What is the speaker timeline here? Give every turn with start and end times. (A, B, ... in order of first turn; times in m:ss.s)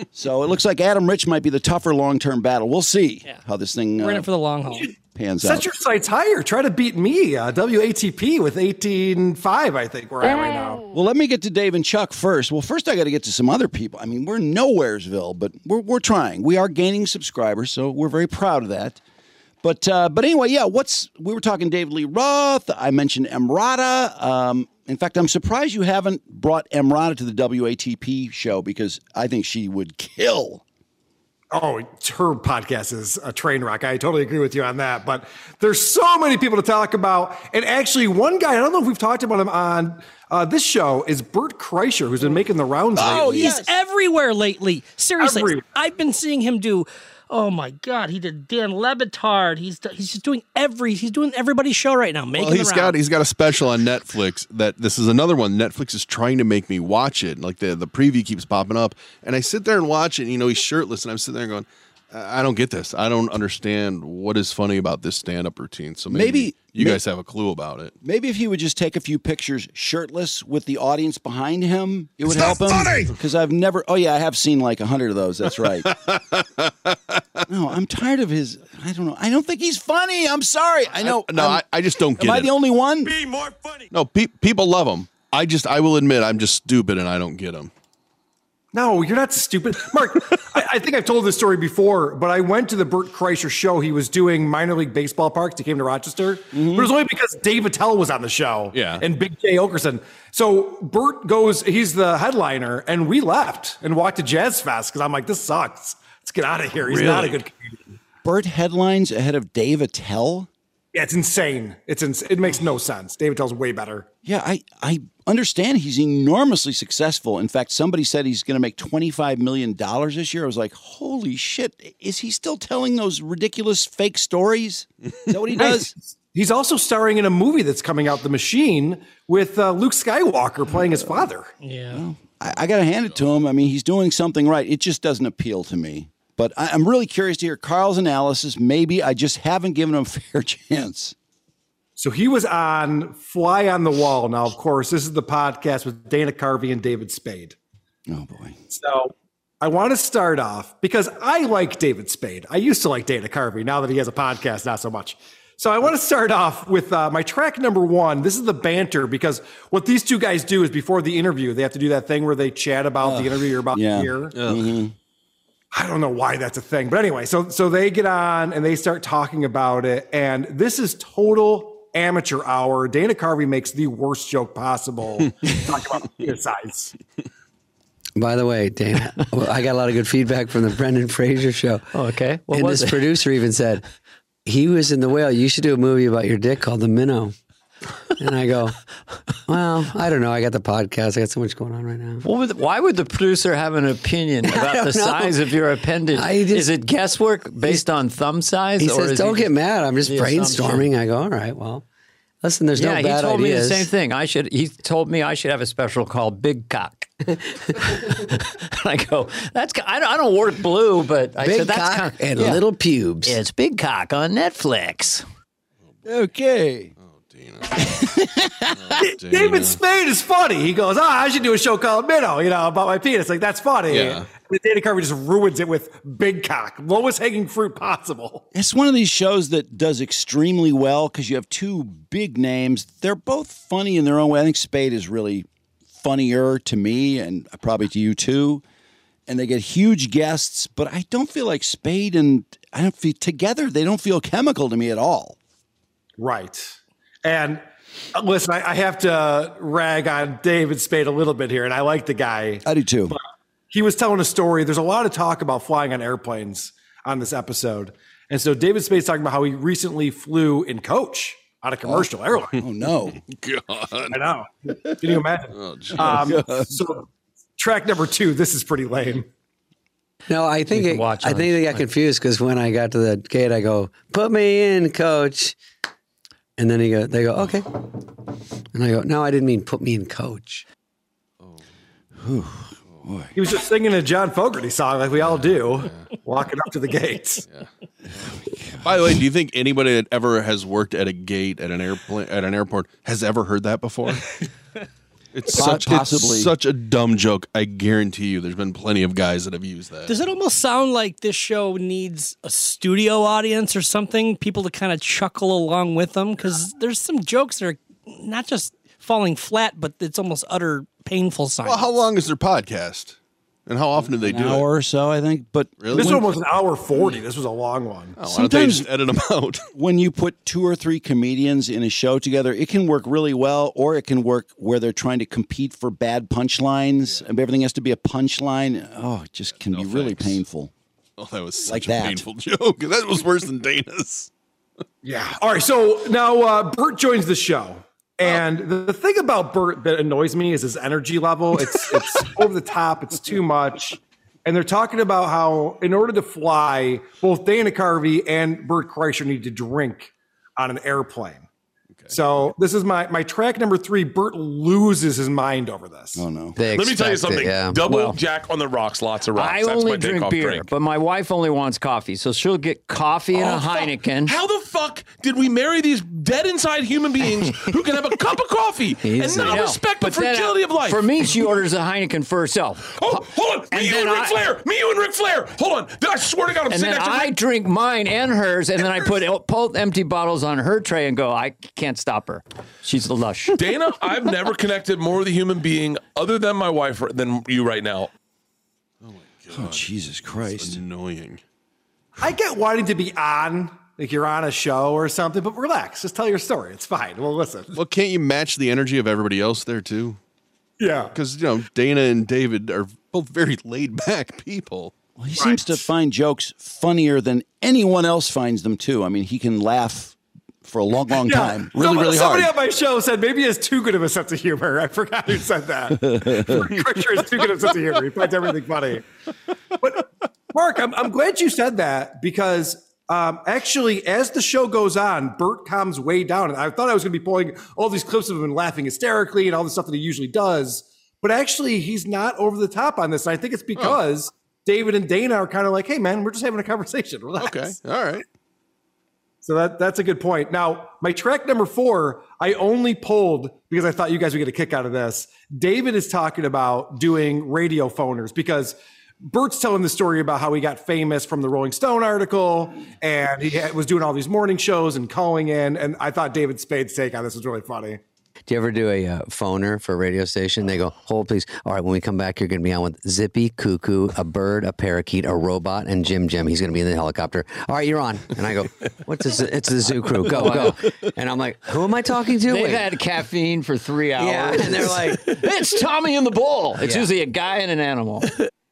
0:00.1-0:04.3 A
0:04.0-0:04.9 B
0:05.1-0:05.7 A
0:05.4-0:10.8 C
0:10.9-0:19.0 A
0:19.6-0:30.6 A
0:31.5-0:43.5 C
0:43.0-0:43.7 A
0:43.0-0:53.0 B
0:45.2-0:45.6 C
0:52.3-1:07.9 D
1:06.1-1:07.0 A
1:08.0-1:15.9 A
1:15.8-1:17.2 D
1:17.5-1:23.1 A
1:21.0-1:22.5 D
1:23.9-1:27.7 D
1:28.7-1:47.8 C
1:36.5-1:36.9 A
1:38.7-1:39.0 D
1:46.9-1:47.3 D
1:48.2-1:50.5 A
1:50.9-1:54.1 C
1:54.2-2:05.9 A
2:05.6-2:11.5 C
2:10.9-2:11.3 A
2:11.6-2:12.0 B
2:11.9-2:21.1 A
2:13.0-2:13.3 D
2:22.0-2:27.6 C
2:28.1-2:28.6 A
2:28.7-2:44.3 C
2:43.0-2:44.9 A
2:44.3-2:44.8 D
2:45.7-2:56.9 C
2:58.2-3:01.9 E
3:01.9-3:03.1 F
3:02.5-3:03.8 E
3:04.4-3:07.3 E
3:08.2-3:08.8 E
3:09.5-3:12.2 E
3:12.2-3:19.5 F
3:14.4-3:15.5 E
3:16.1-3:16.8 E
3:18.8-3:21.8 E
3:20.0-3:20.9 F
3:22.4-3:23.9 E
3:22.8-3:32.6 F
3:31.4-3:33.4 E
3:33.2-3:35.2 F
3:36.0-3:36.9 A
3:37.0-3:38.0 D
3:37.8-3:39.0 A
3:38.7-3:39.8 D
3:39.0-3:48.4 C
3:43.9-3:44.2 D
3:48.5-3:55.5 A
3:56.0-3:58.6 A
3:59.3-4:05.4 A
4:06.2-4:07.6 C
4:08.1-4:22.6 C
4:12.6-4:13.2 A
4:21.8-4:23.2 A
4:23.1-4:24.2 D
4:24.1-4:27.1 C
4:25.5-4:26.4 D
4:25.9-4:26.7 A
4:27.6-4:29.3 C
4:30.3-4:35.6 E
4:30.7-4:31.8 F
4:36.6-4:37.8 E
4:38.7-4:40.6 E
4:42.2-4:43.3 A
4:43.3-4:47.4 C
4:45.8-4:46.0 D
4:48.1-4:49.2 A
4:48.8-4:54.3 D
4:55.3-5:00.2 D
4:55.4-4:56.5 A
5:00.1-5:12.0 B
5:11.6-5:13.2 D
5:13.7-5:14.7 D
5:14.0-5:16.2 A
5:15.8-5:16.2 D
5:15.9-5:18.2 C
5:18.2-5:19.6 D
5:18.2-5:18.9 A
5:19.7-5:30.7 A
5:29.5-5:30.4 D
5:31.2-5:34.3 D
5:31.6-5:32.2 A
5:35.0-5:51.4 C
5:52.1-5:56.2 C
5:56.1-5:56.6 A
5:56.6-5:57.8 E
5:56.7-6:00.7 G
5:57.8-5:58.2 F
5:59.3-6:04.3 F
6:03.3-6:11.4 G
6:09.0-6:09.7 E
6:09.2-6:14.4 F
6:12.9-6:17.4 G
6:16.7-6:23.6 F
6:23.5-6:28.1 G
6:29.0-6:31.4 D
6:29.5-6:30.8 A
6:32.2-6:37.8 C
6:37.7-6:40.2 D
6:40.8-6:41.1 C
6:41.1-6:44.9 D
6:45.2-6:52.5 A
6:45.4-6:45.8 C
6:51.2-6:59.0 C
6:55.9-6:56.7 A
6:59.8-7:17.8 C
7:13.7-7:14.0 D
7:17.4-7:18.2 D
7:19.4-7:38.0 C
7:38.5-7:52.9 E
7:50.2-7:50.8 F
7:52.5-7:58.3 F
7:54.2-7:55.4 E
7:56.8-7:57.1 E